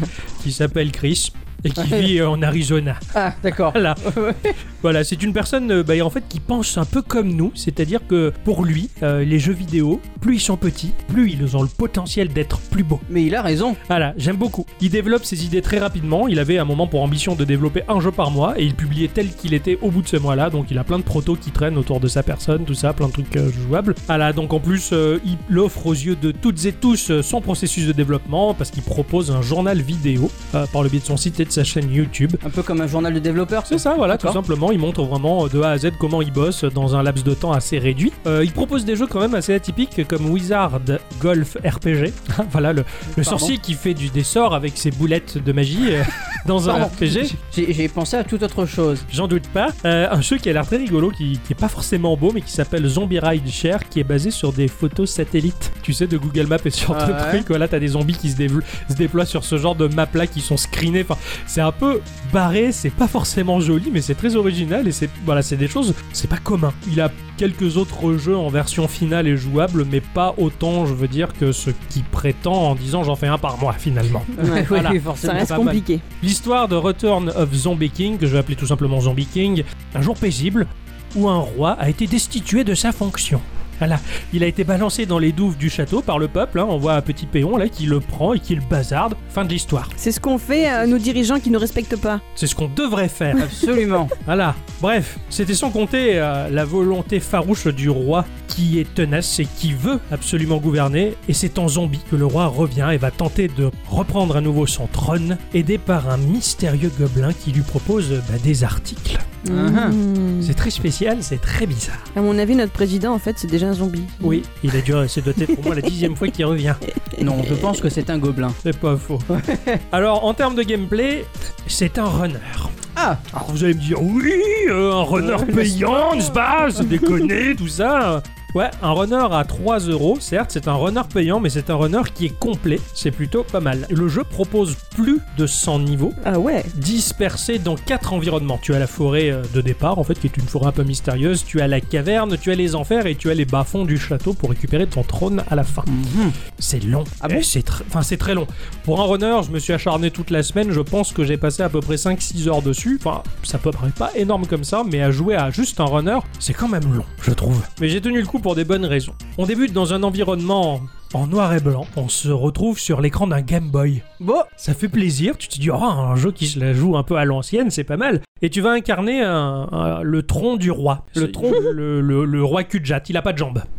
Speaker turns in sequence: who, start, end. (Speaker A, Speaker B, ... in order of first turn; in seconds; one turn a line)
Speaker A: 0.4-3.0
Speaker B: 1.8-2.1
Speaker B: 3.1-4.5
Speaker A: 3.6-4.1
Speaker A: 4.8-13.0
Speaker B: 13.1-13.8
Speaker A: 13.9-32.4
Speaker B: 32.4-34.4
Speaker A: 33.7-47.3
Speaker B: 43.1-43.5
Speaker B: 46.6-49.1
Speaker A: 49.1-89.9
Speaker B: 56.9-57.5
Speaker C: 74.4-76.0
Speaker B: 74.4-75.5
Speaker C: 90.0-92.2
Speaker A: 92.3-93.6
Speaker B: 93.4-94.1
Speaker A: 94.2-109.3
Speaker B: 109.5-110.0
Speaker C: 109.5-110.5
Speaker A: 110.4-112.0
Speaker C: 112.1-114.4
Speaker A: 114.2-116.8
Speaker B: 117.2-118.6
Speaker A: 118.6-119.3
Speaker B: 119.3-119.8
Speaker A: 119.9-122.8
Speaker B: 122.9-123.2
Speaker A: 123.3-136.2
Speaker B: 125.2-126.2
Speaker C: 136.2-136.7
Speaker A: 136.7-145.9
Speaker B: 145.9-146.4
Speaker A: 146.6-164.1
Speaker B: 164.2-164.5
Speaker A: 164.6-173.7
Speaker B: 171.2-171.7